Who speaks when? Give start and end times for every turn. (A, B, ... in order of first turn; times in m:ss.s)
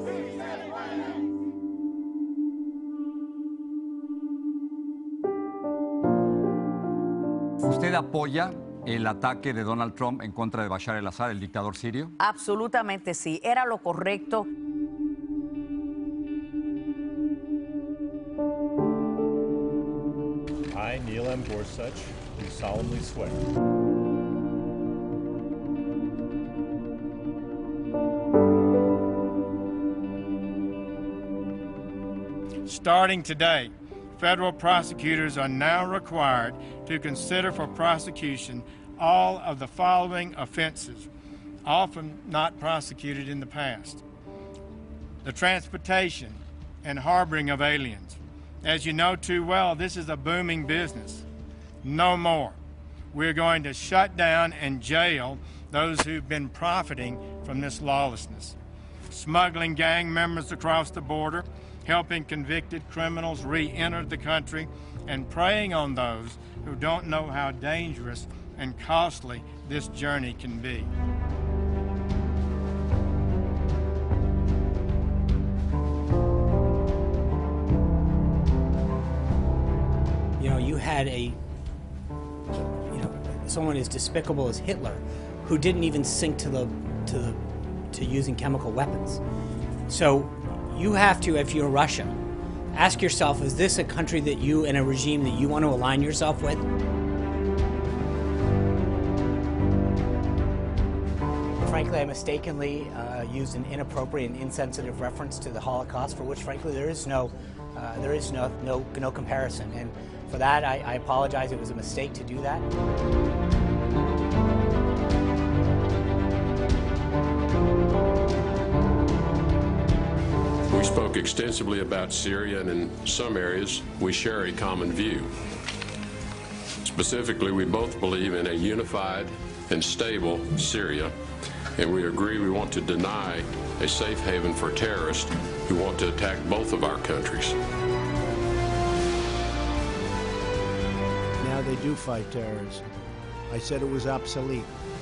0:07.6-0:12.2 A
0:12.2-0:14.5 B
0:20.7-0:23.4 C
0:32.6-0:41.1 D
0:41.6-0:44.0 D
0:45.2-0:51.3 D
0:51.8-0:52.6 D
0:53.1-0:58.6 D
0:59.1-1:10.9 D
1:20.4-1:21.4 E
1:22.9-1:27.4 E
1:27.9-1:29.2 E
1:29.9-1:32.2 E
1:32.7-1:36.6 E
1:41.6-1:52.6 E
2:00.7-2:05.3 F
2:06.8-2:11.1 F
2:11.8-2:17.6 F
2:21.4-2:22.8 G
2:23.5-2:24.7 G